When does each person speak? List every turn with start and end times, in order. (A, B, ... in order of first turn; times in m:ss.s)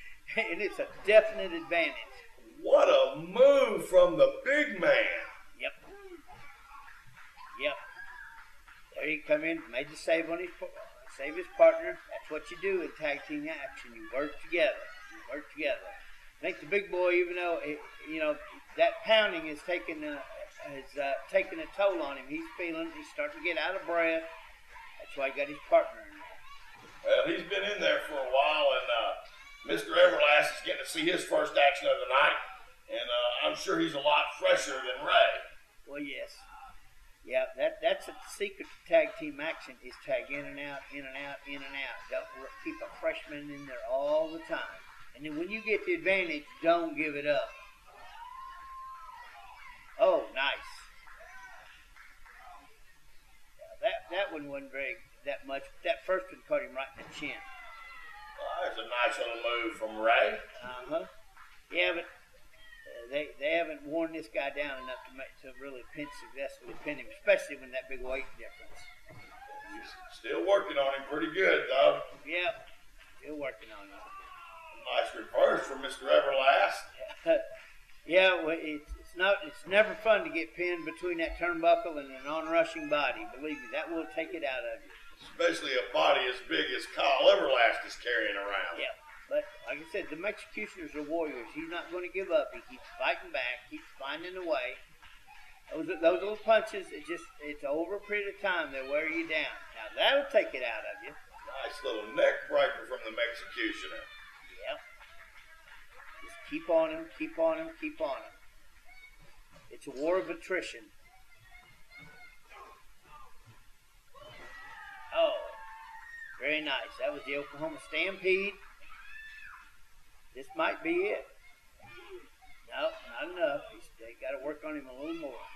0:00.3-0:02.2 A
0:02.4-0:05.3 B
0:08.9-0:24.3 A
0:25.0-0:26.4 A
0:27.0-0:35.4 B
0:35.9-0:36.5 A
0:37.2-0:47.6 A
0:50.0-0:50.9 A
0:53.6-0:57.5 A
0:58.4-1:00.4 B
1:00.6-1:01.1 A
1:01.7-1:02.1 A
1:02.9-1:08.9 A
1:09.6-1:12.0 B
1:12.2-1:12.6 A
1:13.2-1:14.3 A
1:14.7-1:16.9 B
1:17.0-1:17.4 A
1:18.0-1:25.0 A
1:25.2-1:28.8 B
1:28.8-1:34.8 A
1:35.7-1:41.2 A
1:41.5-1:44.1 B
1:44.5-1:44.8 A
1:46.2-1:48.4 A
1:49.7-1:50.9 A
1:55.1-1:55.6 A
1:56.4-1:58.6 A
2:00.3-2:01.3 A
2:02.7-2:05.5 A